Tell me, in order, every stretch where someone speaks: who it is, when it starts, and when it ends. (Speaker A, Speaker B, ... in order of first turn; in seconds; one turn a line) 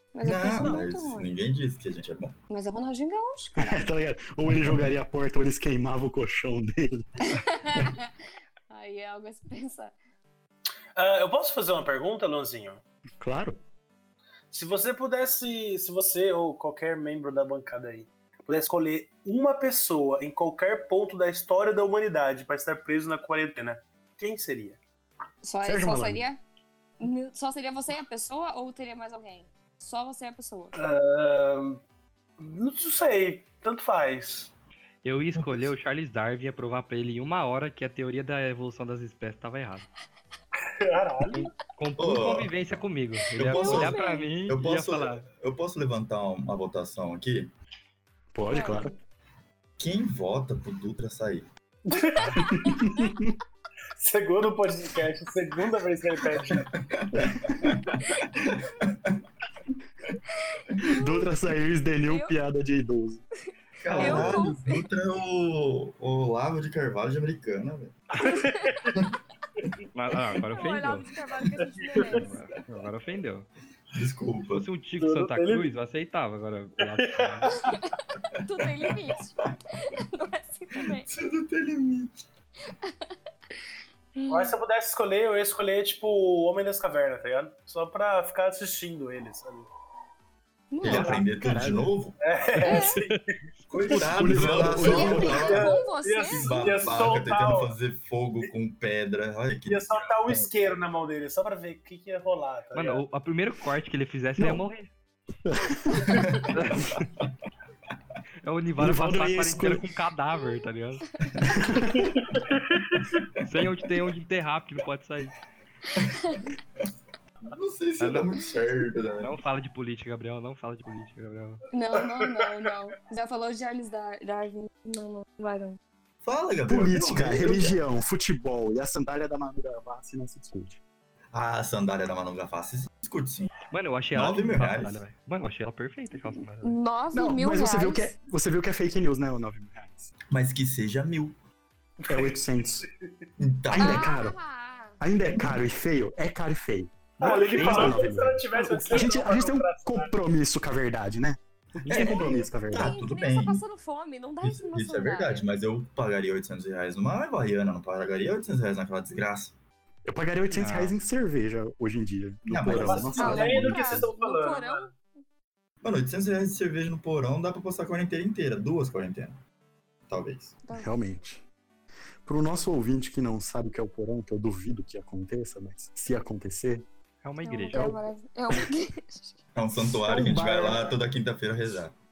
Speaker A: 0.1-1.3
Speaker B: 0.2-2.4
Speaker A: 2.5-3.8
Speaker C: 3.6-7.9
Speaker A: 7.3-8.1
Speaker A: 8.7-9.9
Speaker D: 10.9-12.8
Speaker C: 13.2-13.6
Speaker D: 14.5-24.8
Speaker A: 25.4-26.4
Speaker C: 25.6-26.2
Speaker A: 27.0-30.8
Speaker D: 30.7-31.8
Speaker D: 32.4-34.5
Speaker E: 35.0-39.9
Speaker B: 35.4-35.7
Speaker D: 40.8-41.5
Speaker E: 41.2-45.3
Speaker B: 42.0-42.6
Speaker B: 43.4-47.5
Speaker A: 43.5-44.3
Speaker C: 48.3-48.9
Speaker A: 48.5-49.0
Speaker B: 49.8-51.5
Speaker D: 51.9-52.6
Speaker C: 52.4-53.4
Speaker A: 52.5-53.1
Speaker D: 54.0-56.6
Speaker B: 56.5-59.2
Speaker C: 57.1-57.7
Speaker A: 60.6-61.3
Speaker C: 60.9-63.2
Speaker A: 62.0-62.3
Speaker B: 63.8-68.0
Speaker A: 63.9-64.8
Speaker C: 64.0-64.4
Speaker D: 68.2-68.9
Speaker A: 68.2-68.7
Speaker E: 69.9-71.1
Speaker A: 70.5-72.3
Speaker D: 71.4-72.2
Speaker E: 72.1-73.5
Speaker B: 73.9-74.7
Speaker E: 74.5-77.6
Speaker D: 75.0-75.7
Speaker D: 76.8-77.8
Speaker A: 77.6-81.1
Speaker B: 80.8-82.2
Speaker A: 84.2-84.5
Speaker D: 84.3-89.7
Speaker A: 90.7-91.3
Speaker B: 90.8-92.2
Speaker D: 90.9-91.2
Speaker C: 91.4-91.9
Speaker D: 92.2-93.4
Speaker A: 92.6-93.0
Speaker E: 92.8-93.2
Speaker B: 93.7-100.8
Speaker D: 93.9-97.7
Speaker C: 93.9-95.6
Speaker A: 94.8-97.0
Speaker D: 99.7-103.0
Speaker E: 102.7-104.9
Speaker C: 104.4-104.7
Speaker C: 105.5-106.3
Speaker B: 106.1-106.5
Speaker E: 106.5-107.0
Speaker E: 108.4-111.1
Speaker C: 108.8-109.8
Speaker C: 111.4-112.2
Speaker D: 111.9-113.2
Speaker B: 113.0-113.7
Speaker E: 113.4-115.4
Speaker B: 116.0-116.9
Speaker A: 116.0-116.4
Speaker B: 117.4-119.4
Speaker E: 118.0-118.3
Speaker E: 119.2-121.6
Speaker A: 121.7-125.8
Speaker D: 122.0-122.5
Speaker B: 126.2-127.8
Speaker C: 126.7-130.8
Speaker B: 131.3-133.5
Speaker E: 133.7-136.8
Speaker B: 134.1-135.0
Speaker A: 136.6-138.1
Speaker C: 137.1-140.1
Speaker B: 140.3-141.4
Speaker D: 142.0-142.9
Speaker C: 142.1-142.9
Speaker B: 143.4-144.1
Speaker C: 143.7-144.4
Speaker A: 143.8-145.0
Speaker C: 145.0-153.0
Speaker D: 147.2-150.1
Speaker E: 147.5-148.1
Speaker B: 151.9-153.6
Speaker A: 151.9-155.5
Speaker B: 154.4-159.6
Speaker C: 160.1-164.1
Speaker E: 160.5-160.9
Speaker B: 162.5-163.4
Speaker D: 162.7-164.9
Speaker A: 163.2-164.9
Speaker B: 165.8-169.4
Speaker B: 170.1-170.6
Speaker A: 170.7-170.9
Speaker C: 170.8-171.4
Speaker C: 172.2-176.9
Speaker E: 177.2-177.9
Speaker A: 177.4-179.4
Speaker C: 177.7-178.7
Speaker B: 179.6-181.9
Speaker C: 179.8-181.0